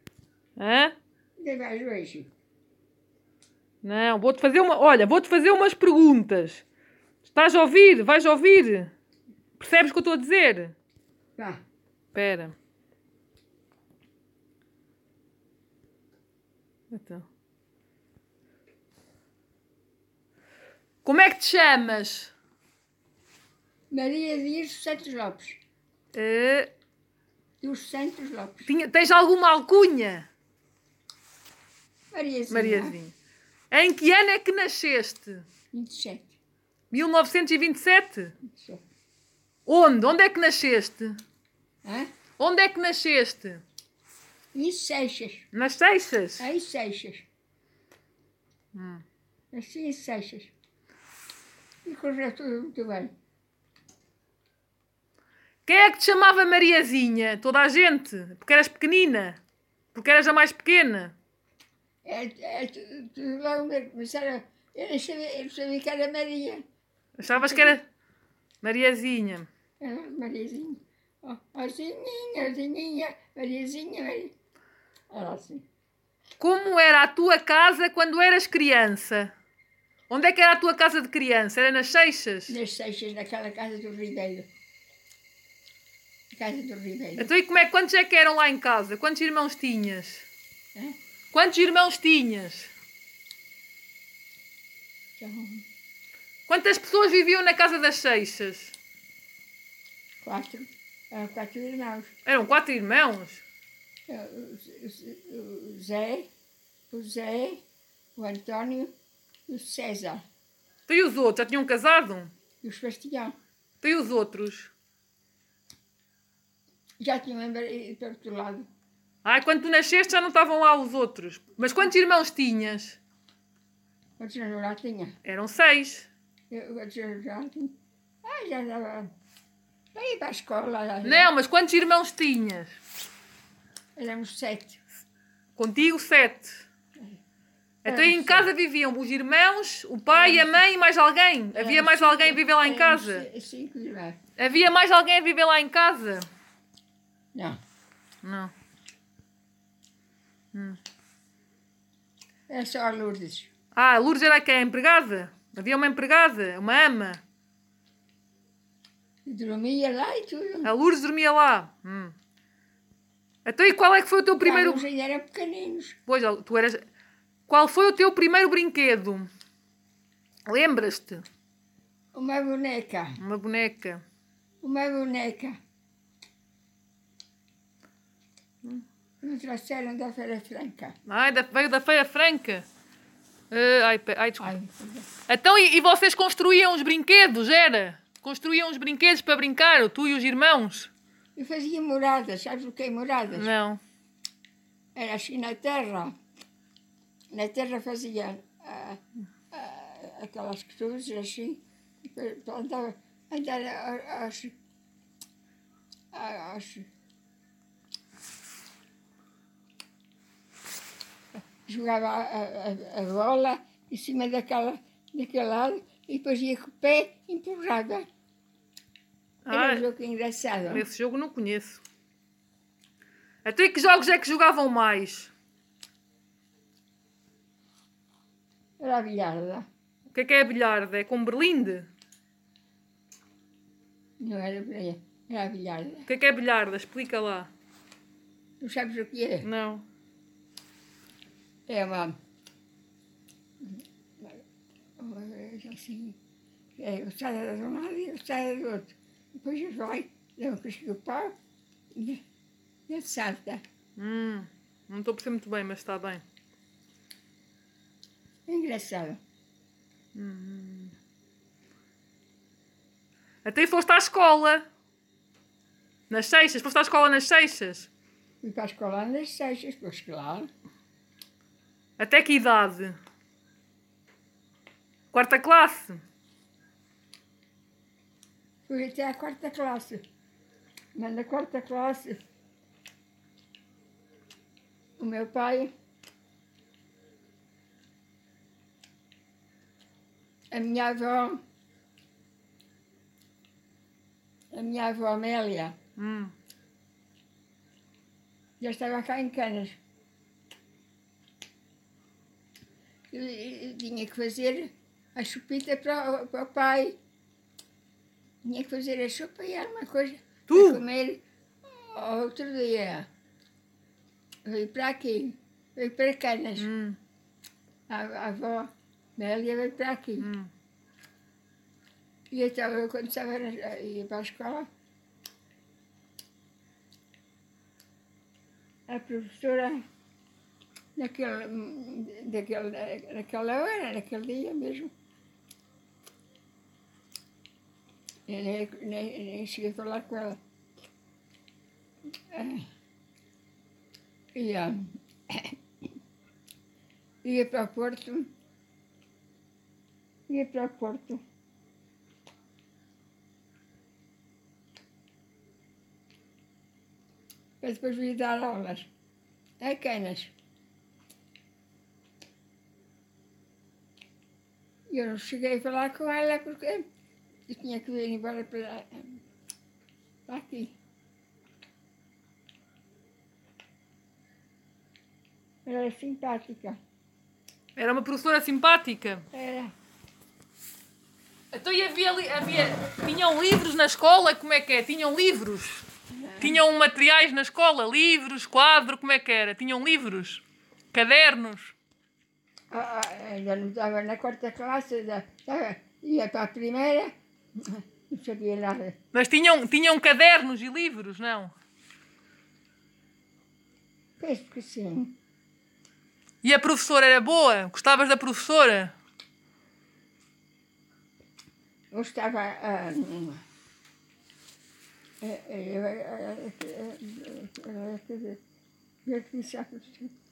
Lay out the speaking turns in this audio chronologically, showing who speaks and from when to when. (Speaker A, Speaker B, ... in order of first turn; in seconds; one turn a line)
Speaker A: 0.6-0.9
Speaker B: 1.4-2.3
Speaker A: 3.8-6.6
Speaker A: 7.2-8.9
Speaker A: 9.6-10.7
Speaker A: 12.1-12.6
Speaker A: 16.9-17.3
Speaker A: 21.1-22.3
Speaker B: 23.9-25.6
Speaker A: 26.1-26.7
Speaker B: 27.6-28.7
Speaker A: 28.7-30.3
Speaker B: 32.1-33.0
Speaker A: 32.5-33.1
Speaker A: 33.7-35.5
Speaker B: 35.7-36.4
Speaker A: 36.9-38.4
Speaker B: 38.5-38.8
Speaker A: 39.7-41.2
Speaker B: 41.9-42.1
Speaker A: 42.4-43.6
Speaker B: 44.5-45.5
Speaker A: 45.5-46.5
Speaker B: 46.4-47.3
Speaker A: 48.7-49.0
Speaker B: 49.5-50.5
Speaker B: 51.9-53.1
Speaker A: 55.7-59.4
Speaker A: 59.9-61.1
Speaker B: 62.0-66.6
Speaker A: 67.2-67.8
Speaker B: 67.3-67.8
Speaker A: 68.6-69.5
Speaker B: 69.8-74.3
Speaker B: 75.1-75.7
Speaker A: 76.4-79.3
Speaker A: 80.1-82.6
Speaker B: 82.5-84.5
Speaker B: 86.3-87.3
Speaker A: 87.2-90.3
Speaker A: 91.3-92.7
Speaker B: 95.2-95.6
Speaker A: 96.5-98.8
Speaker B: 100.2-102.1
Speaker A: 102.3-103.4
Speaker B: 104.1-106.3
Speaker B: 106.9-107.6
Speaker B: 108.2-108.9
Speaker B: 109.5-110.2
Speaker A: 110.9-112.3
Speaker B: 112.6-113.3
Speaker A: 113.8-114.7
Speaker B: 117.0-118.7
Speaker A: 119.2-123.0
Speaker B: 124.2-125.1
Speaker A: 125.2-126.1
Speaker B: 126.5-127.7
Speaker B: 128.2-129.1
Speaker B: 129.9-131.3
Speaker A: 131.0-132.8
Speaker B: 134.0-134.8
Speaker A: 135.6-136.7
Speaker A: 137.8-143.3
Speaker B: 137.8-138.5
Speaker B: 140.1-140.6
Speaker B: 141.5-144.2
Speaker A: 144.4-146.3
Speaker A: 148.2-148.5
Speaker A: 150.5-150.8
Speaker B: 152.5-153.5
Speaker A: 153.7-157.2
Speaker B: 159.3-160.7
Speaker A: 160.6-162.2
Speaker A: 163.4-164.9
Speaker B: 164.4-166.0
Speaker A: 166.1-166.8
Speaker A: 167.5-169.3
Speaker A: 170.5-171.2
Speaker B: 172.1-173.2
Speaker A: 173.2-174.0
Speaker B: 174.6-175.6
Speaker B: 179.2-181.0
Speaker A: 181.1-182.7
Speaker A: 183.5-184.5
Speaker B: 184.4-185.1
Speaker A: 185.3-190.9
Speaker B: 191.4-193.5
Speaker A: 193.3-193.8
Speaker B: 194.9-196.1
Speaker B: 197.3-199.0
Speaker B: 199.5-204.5
Speaker B: 206.1-206.9
Speaker B: 211.7-218.1
Speaker A: 219.5-219.9
Speaker B: 219.5-220.8
Speaker A: 220.7-221.8
Speaker A: 223.4-225.3
Speaker B: 228.8-229.7
Speaker A: 230.1-231.9
Speaker B: 234.2-236.1
Speaker A: 236.1-237.5
Speaker B: 238.6-239.5
Speaker A: 239.4-239.8
Speaker B: 241.7-242.2
Speaker B: 245.0-246.2
Speaker B: 246.8-251.3
Speaker B: 251.9-252.2
Speaker B: 252.9-253.6
Speaker A: 254.0-256.2
Speaker B: 258.5-259.2
Speaker A: 260.1-260.9
Speaker A: 263.4-264.6
Speaker A: 266.1-267.9
Speaker B: 268.4-270.5
Speaker A: 272.0-273.0
Speaker A: 275.1-276.0
Speaker B: 278.7-280.0
Speaker B: 280.9-282.2
Speaker B: 285.0-285.7
Speaker B: 290.5-291.4
Speaker B: 294.5-295.8
Speaker A: 296.0-296.3
Speaker B: 298.6-299.8
Speaker B: 303.1-307.0
Speaker B: 308.4-313.1
Speaker A: 310.5-310.8
Speaker B: 314.4-316.7
Speaker A: 316.6-317.0
Speaker B: 317.9-320.3
Speaker A: 320.2-320.5
Speaker B: 322.3-324.7
Speaker B: 328.9-329.8
Speaker B: 331.0-334.9
Speaker B: 338.3-340.4
Speaker B: 342.3-342.7
Speaker B: 344.4-345.5
Speaker B: 347.2-348.3
Speaker B: 350.3-351.2
Speaker B: 357.6-358.9
Speaker B: 359.6-360.3
Speaker B: 364.9-366.9
Speaker B: 367.5-369.2
Speaker B: 370.3-370.8
Speaker B: 375.7-376.8
Speaker A: 377.8-379.2
Speaker B: 379.3-379.7
Speaker A: 381.5-385.9
Speaker B: 386.1-386.6
Speaker A: 386.4-391.7
Speaker B: 392.7-398.9
Speaker A: 399.1-401.5
Speaker B: 404.2-405.2
Speaker A: 406.4-408.9
Speaker B: 411.9-413.4
Speaker B: 415.2-418.4
Speaker B: 419.1-420.1